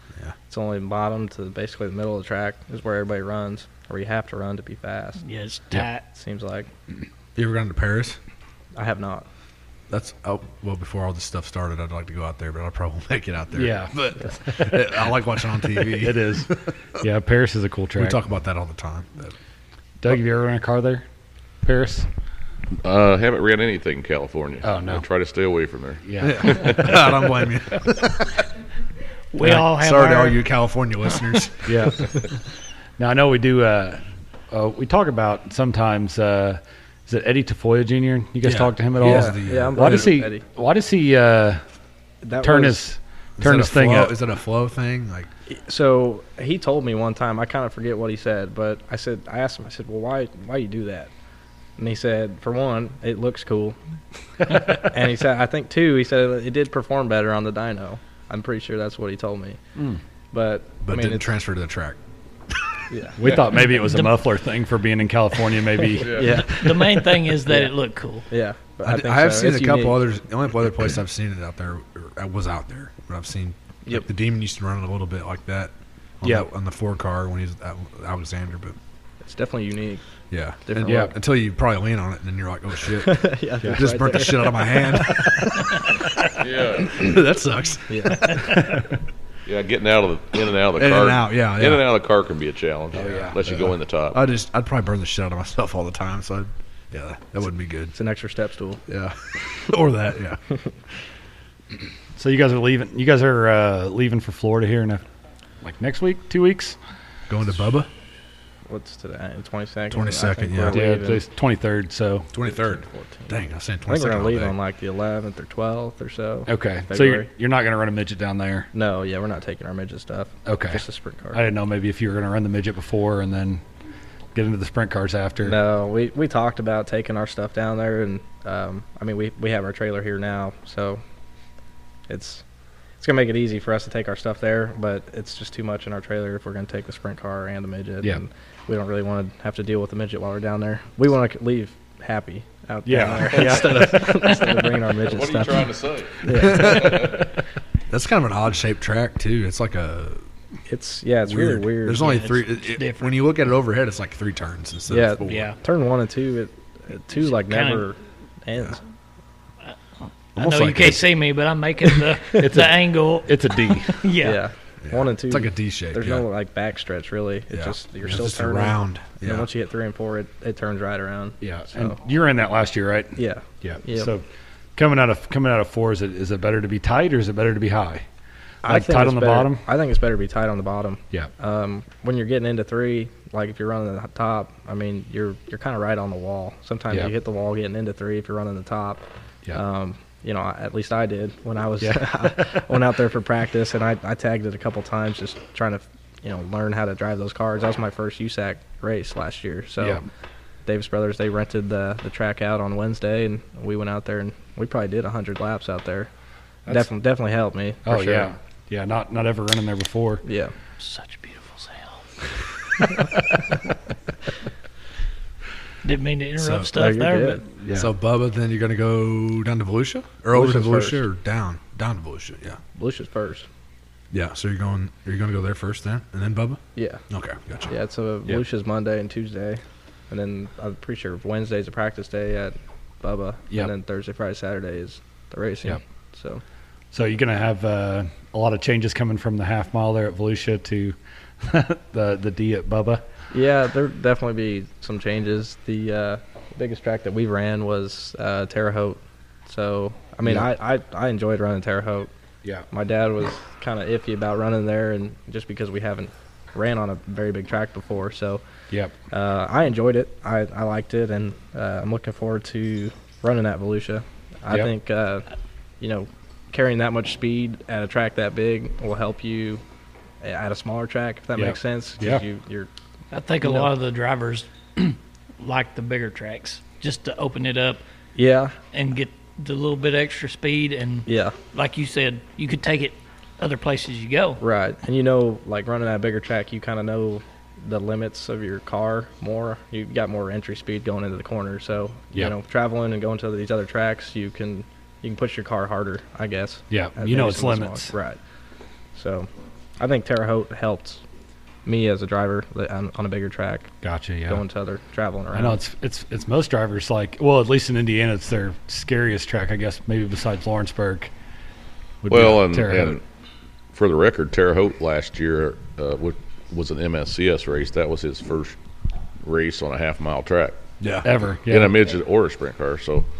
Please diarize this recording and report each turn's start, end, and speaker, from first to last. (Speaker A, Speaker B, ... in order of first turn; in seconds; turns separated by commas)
Speaker A: 0.5-5.2, Speaker B: 5.2-6.0, Speaker A: 6.1-6.7, Speaker C: 7.3-8.2, Speaker A: 8.7-9.3, Speaker C: 9.9-16.8, Speaker D: 13.6-14.8, Speaker D: 15.8-18.2, Speaker C: 17.9-19.3, Speaker D: 20.0-21.0, Speaker D: 21.6-22.1, Speaker E: 22.8-27.0, Speaker D: 24.6-25.0, Speaker D: 26.0-27.1, Speaker C: 26.2-28.4, Speaker B: 29.3-30.4, Speaker C: 29.6-32.1, Speaker D: 31.6-32.2, Speaker D: 33.0-41.6, Speaker C: 38.4-40.1, Speaker A: 39.0-40.4, Speaker A: 42.2-42.8, Speaker D: 42.4-44.1, Speaker C: 43.4-45.3, Speaker A: 45.5-51.1, Speaker A: 51.8-53.8, Speaker A: 54.4-59.6, Speaker A: 60.3-61.3, Speaker C: 60.8-62.0, Speaker A: 62.9-63.2, Speaker D: 63.2-66.5, Speaker E: 66.0-66.3, Speaker A: 66.0-67.7, Speaker B: 66.5-68.2, Speaker A: 68.3-70.0, Speaker C: 68.8-78.8, Speaker A: 79.2-80.0, Speaker C: 80.3-88.7, Speaker A: 80.7-81.1, Speaker D: 80.8-81.1, Speaker A: 83.0-85.5, Speaker E: 86.4-87.2, Speaker A: 87.9-88.5, Speaker E: 89.5-94.2, Speaker C: 90.8-91.8, Speaker D: 93.0-93.3, Speaker C: 93.4-97.9, Speaker A: 97.9-98.8, Speaker C: 98.9-100.4, Speaker D: 102.2-105.0, Speaker D: 105.6-106.8, Speaker C: 107.3-107.9, Speaker A: 108.7-111.2, Speaker C: 109.9-110.8, Speaker D: 110.7-112.3, Speaker C: 112.3-114.5, Speaker A: 112.9-113.3, Speaker A: 113.8-117.3, Speaker D: 116.5-118.7, Speaker A: 118.7-121.4, Speaker D: 120.5-123.6, Speaker D: 124.3-125.6, Speaker A: 125.4-131.0, Speaker A: 132.1-132.4, Speaker A: 133.0-145.7, Speaker D: 142.8-144.0, Speaker C: 143.6-144.0, Speaker E: 144.9-147.3, Speaker A: 146.2-147.2, Speaker C: 146.4-147.2, Speaker C: 147.9-150.2, Speaker A: 150.7-152.2, Speaker C: 151.2-155.5, Speaker B: 152.0-153.1, Speaker A: 154.9-158.8, Speaker B: 155.2-155.6, Speaker B: 157.2-157.8, Speaker C: 160.3-161.0, Speaker B: 160.3-164.4, Speaker D: 162.4-164.1, Speaker A: 164.2-172.0, Speaker C: 164.8-166.2, Speaker C: 167.5-169.5, Speaker D: 171.4-174.2, Speaker A: 173.2-174.1, Speaker D: 174.7-178.1, Speaker D: 178.6-179.7, Speaker A: 178.6-200.0, Speaker D: 191.8-192.6, Speaker A: 200.6-206.1, Speaker A: 206.7-208.3, Speaker D: 207.8-210.2, Speaker A: 210.2-210.5, Speaker B: 210.8-212.0, Speaker B: 215.8-217.5, Speaker C: 216.4-216.7, Speaker A: 216.7-217.4, Speaker D: 217.6-217.9, Speaker C: 217.7-222.6, Speaker A: 220.3-221.0, Speaker A: 222.7-223.5, Speaker C: 224.1-227.7, Speaker A: 226.7-227.0, Speaker A: 227.7-236.4, Speaker D: 236.9-243.0, Speaker A: 243.3-252.1, Speaker A: 252.7-258.4, Speaker A: 259.1-265.2, Speaker A: 265.8-269.6, Speaker A: 270.2-272.7, Speaker D: 271.4-272.2, Speaker B: 273.1-277.8, Speaker A: 273.4-273.7, Speaker A: 278.1-278.5, Speaker B: 278.7-284.4, Speaker A: 281.1-281.4, Speaker A: 284.4-298.2, Speaker D: 296.7-297.9, Speaker A: 298.9-301.0, Speaker A: 301.6-303.7, Speaker D: 303.8-304.4, Speaker A: 304.2-305.6, Speaker D: 305.3-311.1, Speaker D: 312.0-313.0, Speaker E: 312.1-313.0, Speaker E: 313.7-318.6, Speaker E: 319.2-320.6, Speaker C: 320.8-321.1, Speaker D: 321.0-321.8, Speaker E: 321.5-323.1